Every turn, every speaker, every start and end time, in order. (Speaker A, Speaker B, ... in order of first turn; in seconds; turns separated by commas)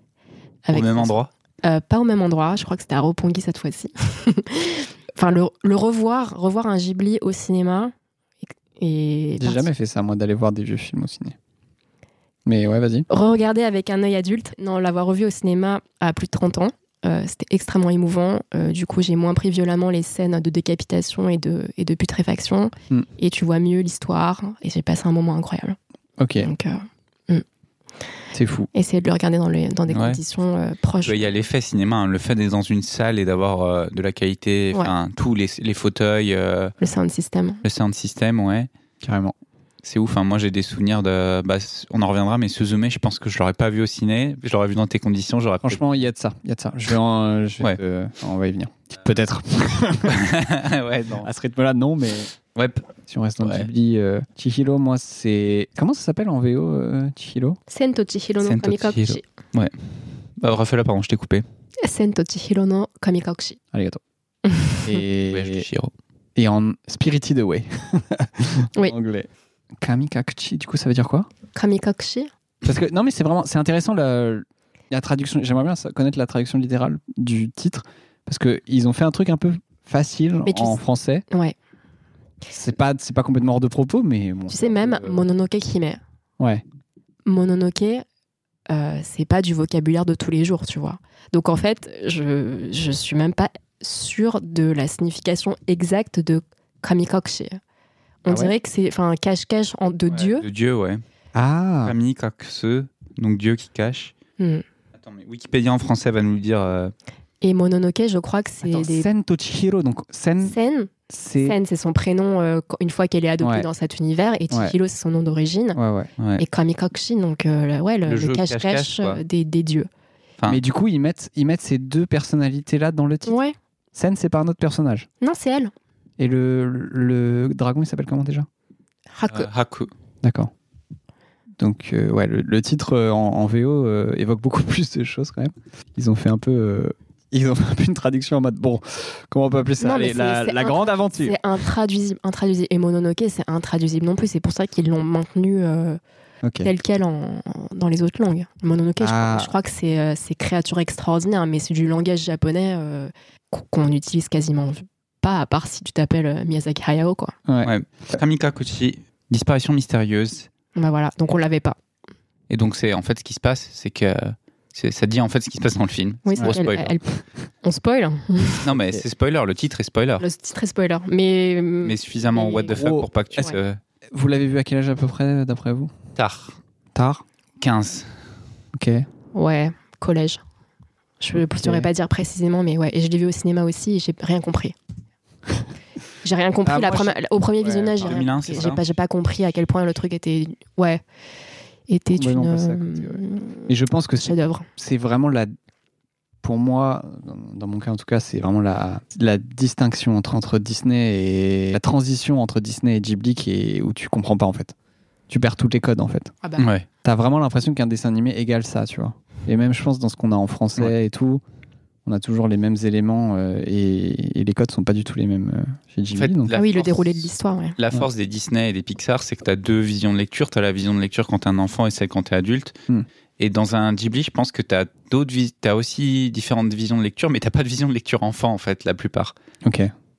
Speaker A: 0.7-7.9, Speaker B: 0.7-1.3, Speaker A: 8.8-9.7, Speaker C: 9.4-11.3, Speaker C: 12.4-13.1, Speaker A: 13.1-25.8, Speaker C: 26.2-26.5, Speaker A: 26.4-27.4, Speaker C: 28.3-28.7, Speaker A: 28.7-31.3, Speaker B: 29.9-30.2, Speaker B: 31.0-36.7, Speaker A: 36.8-37.6, Speaker B: 37.6-38.7, Speaker C: 39.0-39.3, Speaker B: 39.8-46.0, Speaker C: 45.6-50.3, Speaker B: 50.1-51.3, Speaker C: 51.2-52.3, Speaker B: 52.5-52.9, Speaker C: 53.1-57.6, Speaker B: 53.4-53.7, Speaker A: 57.7-59.2, Speaker B: 58.4-61.4, Speaker A: 61.8-63.6, Speaker C: 63.7-64.0, Speaker A: 64.5-65.0, Speaker C: 64.8-65.7, Speaker B: 65.3-65.9, Speaker C: 66.3-69.3, Speaker C: 69.8-71.3, Speaker A: 71.5-72.3, Speaker C: 72.6-81.2, Speaker A: 80.5-80.8, Speaker C: 82.5-85.2, Speaker A: 84.5-86.0, Speaker C: 86.4-86.6, Speaker A: 87.2-88.0, Speaker A: 88.7-97.6, Speaker A: 98.2-100.4, Speaker C: 98.3-98.5, Speaker B: 100.1-101.0, Speaker C: 101.3-101.9, Speaker B: 101.8-104.1, Speaker A: 104.4-104.6, Speaker B: 105.0-106.9, Speaker A: 107.4-109.1, Speaker C: 108.6-110.5, Speaker A: 110.4-115.8, Speaker C: 111.1-111.6, Speaker C: 113.4-113.7, Speaker C: 115.7-116.1, Speaker A: 116.4-119.9, Speaker B: 118.0-119.2, Speaker C: 120.5-123.4, Speaker A: 123.2-123.5, Speaker C: 123.9-125.1, Speaker A: 125.2-125.7, Speaker C: 126.2-128.5, Speaker A: 129.1-129.5, Speaker B: 129.3-129.9, Speaker C: 130.2-130.5, Speaker C: 131.6-141.4, Speaker A: 139.8-146.0, Speaker C: 146.4-146.7, Speaker A: 146.6-157.3, Speaker C: 149.0-149.5, Speaker C: 157.5-158.2, Speaker B: 157.6-160.5, Speaker A: 160.8-161.8, Speaker B: 162.5-166.9, Speaker A: 166.2-168.6, Speaker B: 168.6-170.2, Speaker C: 168.7-169.0, Speaker A: 170.2-172.7, Speaker B: 171.8-173.8, Speaker C: 172.7-173.4, Speaker C: 174.1-175.9, Speaker B: 176.2-176.6, Speaker C: 176.9-177.2, Speaker B: 177.6-178.1, Speaker C: 178.7-179.1, Speaker A: 179.3-180.4, Speaker A: 181.2-184.7, Speaker C: 181.4-181.9, Speaker A: 186.2-191.0, Speaker C: 186.6-188.8, Speaker B: 188.0-188.8, Speaker A: 191.9-193.7, Speaker C: 192.1-195.5, Speaker A: 194.2-194.7, Speaker C: 196.4-204.7, Speaker C: 205.3-206.3, Speaker B: 206.6-206.8, Speaker C: 207.0-211.4, Speaker C: 212.1-216.5, Speaker B: 216.1-222.7, Speaker A: 216.5-217.8, Speaker B: 223.4-229.3, Speaker C: 229.6-229.9